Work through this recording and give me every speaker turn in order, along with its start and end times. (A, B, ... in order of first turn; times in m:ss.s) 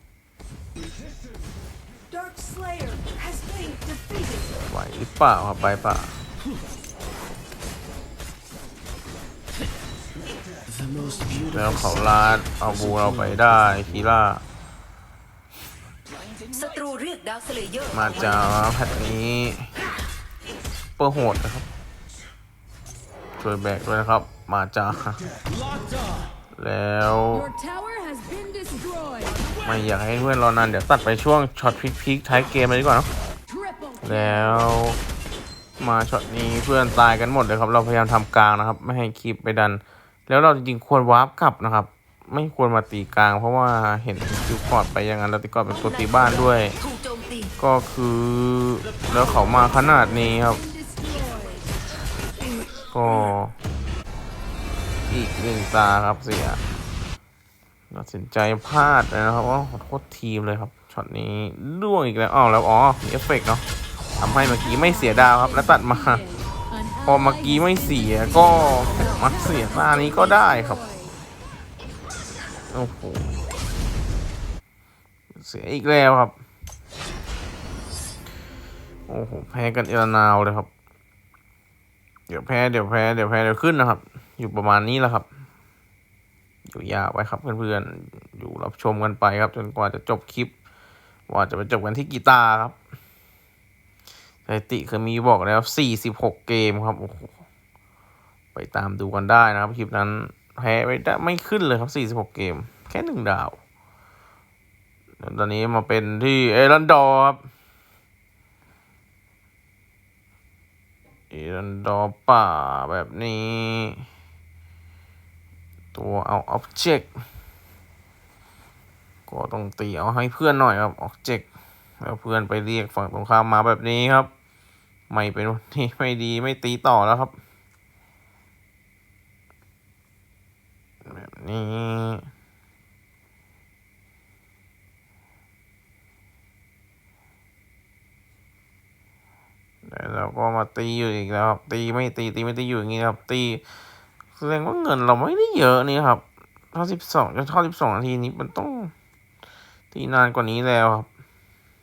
0:02.1-0:04.6 A
0:04.7-0:06.2 B
0:11.4-0:14.4 B
0:16.5-0:18.5 A
0:17.9-0:19.7 B
0:21.0-0:21.7 B
0:23.4-0:25.3 B
0:26.5-0:27.5 B
0:27.3-0:29.4 C
0:29.6-0:33.1 B
0:33.5-0:34.7 C
0:34.0-0:35.0 B
0:35.8-0:46.8 B
0:45.8-0:47.5 A
0:47.6-0:50.6 B
0:49.6-0:51.6 C
0:52.9-0:53.6 B
0:55.1-0:56.6 B
0:57.9-1:03.6 B
1:04.2-1:06.2 B
1:04.3-1:11.2 C
1:07.0-1:10.8 B
1:12.7-1:13.4 B
1:15.4-1:16.4 B
1:19.1-1:20.7 B
1:22.3-1:25.3 B
1:26.6-1:30.5 B
1:31.3-1:32.8 B
1:34.5-1:37.3 B
1:38.5-1:43.6 B
1:45.2-1:47.4 B
1:51.3-1:54.0 B
1:55.9-1:57.1 B
1:59.3-2:01.5 B
2:02.0-2:04.3 B
2:05.1-2:07.4 B
2:11.0-2:12.3 B
2:19.8-2:23.6 B
2:24.4-2:28.9 B
2:29.9-2:31.1 B